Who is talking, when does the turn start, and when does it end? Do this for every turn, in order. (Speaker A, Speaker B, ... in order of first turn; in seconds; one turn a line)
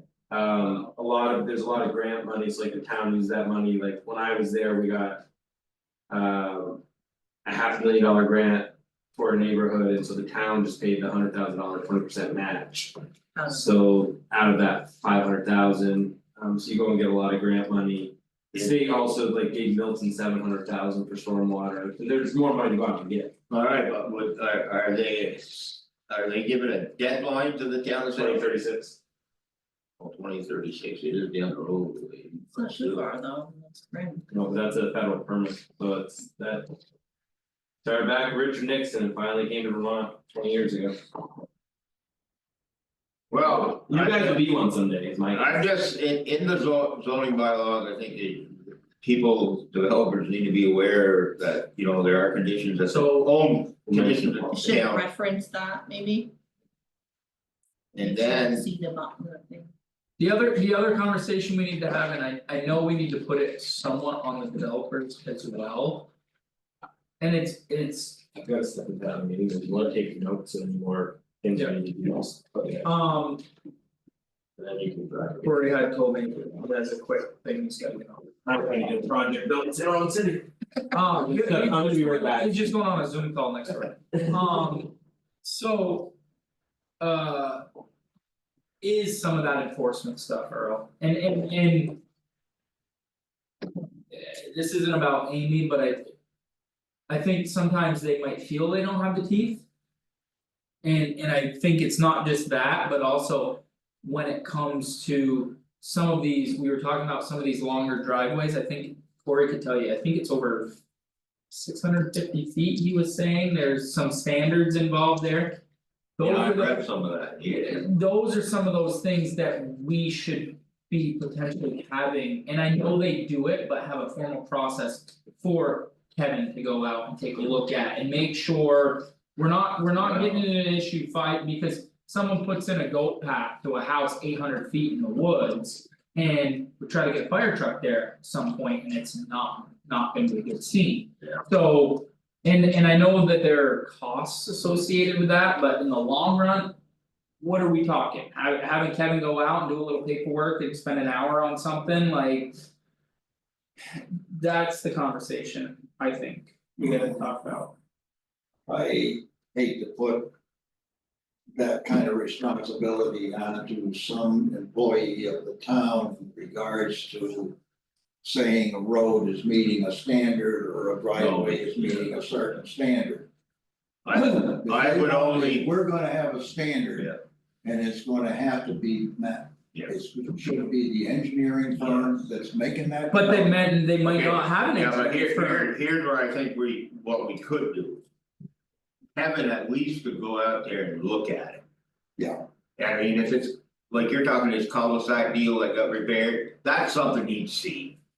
Speaker A: 0.3-5.2
Speaker A: 6.1-6.8
Speaker A: 7.4-12.9
Speaker B: 13.3-13.7
Speaker A: 13.5-23.3
Speaker C: 23.5-28.5
Speaker A: 28.1-29.0
Speaker C: 30.0-33.0
Speaker B: 32.5-34.3
Speaker A: 34.3-36.7
Speaker A: 37.8-41.0
Speaker C: 43.3-44.4
Speaker A: 43.4-45.6
Speaker C: 45.3-55.0
Speaker D: 52.9-53.3
Speaker A: 53.9-54.8
Speaker B: 54.5-56.3
Speaker B: 57.9-59.7
Speaker C: 57.9-58.6
Speaker D: 60.2-66.1
Speaker D: 67.2-68.2
Speaker A: 68.3-72.8
Speaker D: 72.8-73.4
Speaker A: 74.6-75.5
Speaker D: 75.4-78.3
Speaker A: 78.4-80.5
Speaker D: 80.9-86.1
Speaker A: 81.1-82.7
Speaker D: 87.0-87.7
Speaker D: 88.8-92.0
Speaker D: 94.1-96.1
Speaker D: 97.1-99.6
Speaker D: 100.8-110.8
Speaker D: 111.5-115.6
Speaker D: 116.2-116.8
Speaker C: 116.2-117.9
Speaker D: 117.4-146.8
Speaker D: 147.4-152.6
Speaker D: 153.9-157.8
Speaker E: 158.7-160.3
Speaker E: 161.5-167.6
Speaker E: 168.2-173.3
Speaker C: 171.1-172.2
Speaker C: 174.0-175.7
Speaker E: 174.1-183.6
Speaker D: 183.1-185.7
Speaker C: 184.0-188.0
Speaker C: 189.1-191.6
Speaker E: 192.2-192.4
Speaker C: 192.8-197.9